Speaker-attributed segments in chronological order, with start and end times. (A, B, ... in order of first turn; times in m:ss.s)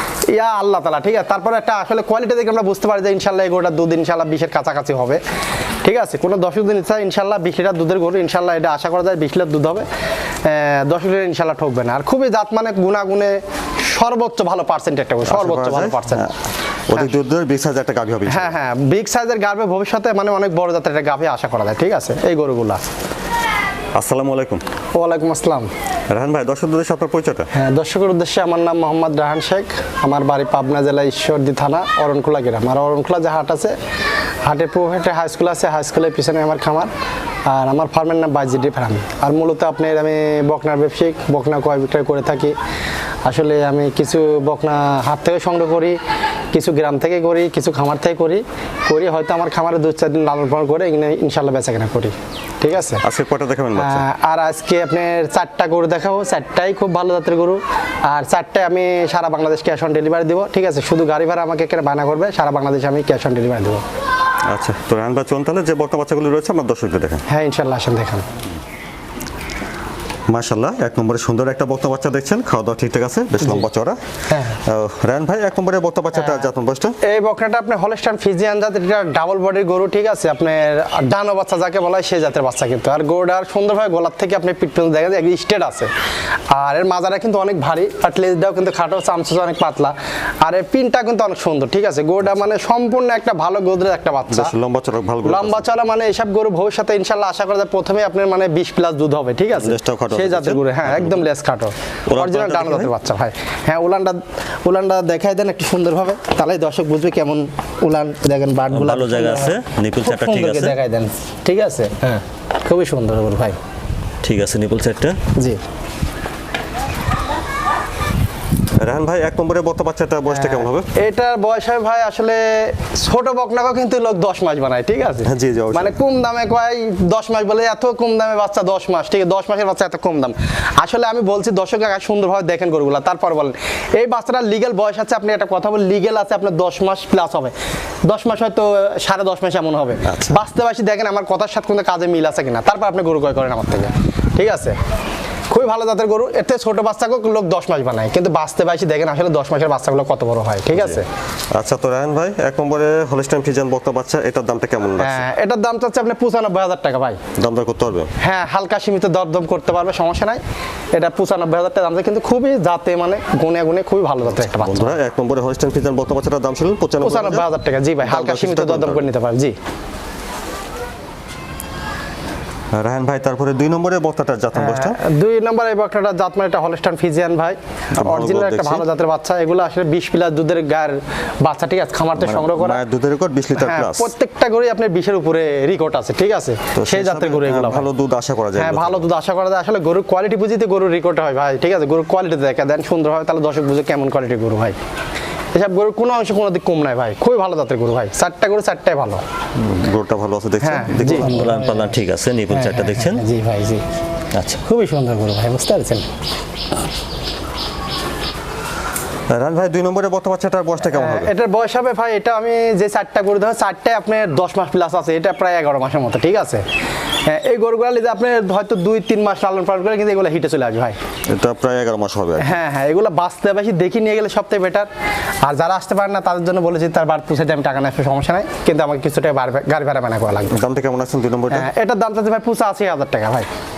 0:00.3-0:05.2 A
0:05.8-0:09.9 A
0:10.4-0:16.3 A
0:15.2-0:16.3 B
0:16.9-0:18.5 B
0:18.3-0:22.8 A
0:24.0-0:24.6 B
0:24.9-0:25.7 A
0:26.1-0:27.5 B
0:27.5-0:33.7 A
0:34.4-0:36.9 A
0:37.5-0:42.5 A
0:43.2-0:46.0 A
0:46.5-0:53.0 A
0:53.0-0:54.1 B
0:53.8-1:03.8 A
1:04.5-1:07.2 B
1:07.3-1:08.3 A
1:10.3-1:14.0 B
1:14.3-1:14.6 A
1:14.6-1:17.0 B
1:16.2-1:16.4 A
1:17.0-1:25.9 A
1:26.5-1:34.5 A
1:34.3-1:35.6 B
1:35.2-1:53.6 A
1:39.6-1:41.2 B
1:42.1-1:42.9 B
1:48.7-1:50.7 C
1:49.0-1:50.6 B
1:54.2-1:55.1 C
1:58.8-2:00.9 B
2:00.3-2:17.5 A
2:05.2-2:06.0 B
2:18.0-2:24.8 A
2:20.0-2:20.4 B
2:25.5-2:31.1 A
2:30.7-2:31.0 B
2:31.5-2:35.2 B
2:35.0-2:37.2 A
2:37.4-2:38.1 B
2:38.2-2:40.4 A
2:40.9-2:44.9 A
2:44.3-2:47.4 B
2:47.0-2:49.6 A
2:48.0-2:49.1 B
2:52.7-2:55.0 B
2:54.5-3:02.8 A
2:58.0-2:58.8 B
3:02.2-3:04.1 B
3:03.6-3:07.9 A
3:06.7-3:09.0 B
3:08.6-3:14.8 A
3:15.5-3:19.2 A
3:19.6-3:22.0 B
3:20.6-3:21.9 A
3:21.0-3:23.2 C
3:22.5-3:23.8 A
3:24.6-3:26.1 A
3:29.3-3:31.3 B
3:30.9-3:36.6 A
3:37.2-3:41.0 A
3:41.3-3:42.6 B
3:42.4-3:44.9 A
3:45.4-3:50.6 A
3:50.5-3:51.7 B
3:51.5-3:53.5 A